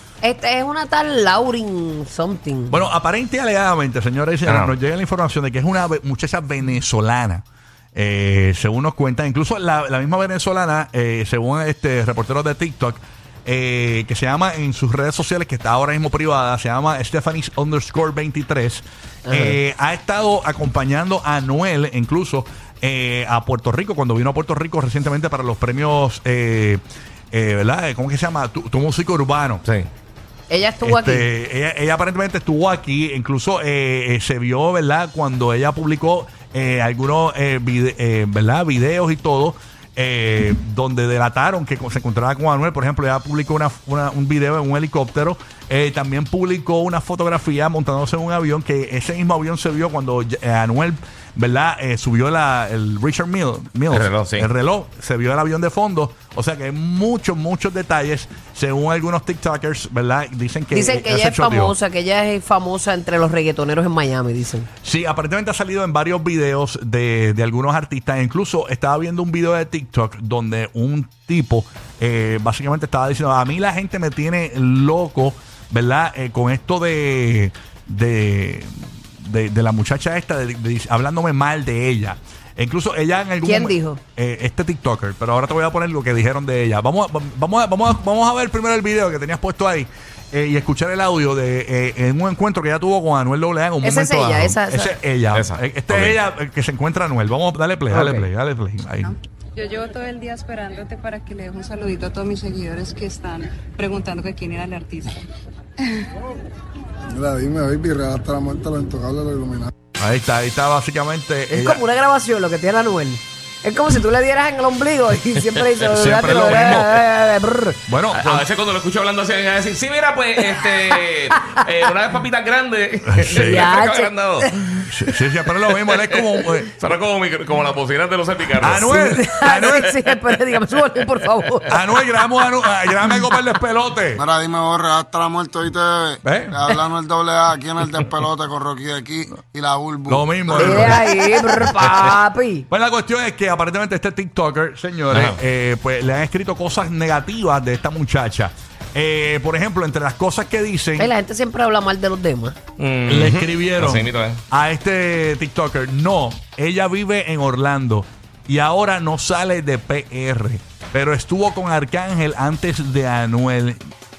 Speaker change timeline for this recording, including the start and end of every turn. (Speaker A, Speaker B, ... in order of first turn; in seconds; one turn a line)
Speaker A: 0.2-2.8
Speaker B: 2.7-29.6
Speaker C: 4.5-4.7
Speaker A: 19.3-19.6
Speaker A: 30.5-31.3
Speaker B: 30.8-61.7
Speaker C: 53.9-54.5
Speaker A: 60.7-64.7
Speaker B: 64.8-99.1
Speaker A: 83.4-84.0
Speaker A: 93.8-95.0
Speaker C: 95.3-96.2
Speaker A: 97.9-98.3
Speaker D: 99.5-105.2
Speaker E: 107.1-109.7
Speaker B: 110.0-111.8
Speaker A: 111.5-117.8
Speaker B: 115.9-117.0
Speaker B: 117.8-118.5
Speaker C: 118.1-124.5
Speaker B: 123.1-123.7
Speaker A: 123.3-124.8
Speaker B: 124.8-126.7
Speaker C: 125.7-126.2
Speaker C: 126.7-128.9
Speaker B: 128.6-130.0
Speaker A: 128.8-133.2
Speaker B: 131.7-134.2
Speaker E: 134.2-140.9
Speaker B: 136.2-136.6
Speaker B: 140.1-141.0
Speaker A: 140.5-142.7
Speaker B: 141.8-142.1
Speaker B: 142.7-151.1
Speaker C: 145.1-145.4
Speaker A: 151.0-152.6
Speaker C: 152.8-154.4
Speaker B: 153.1-163.8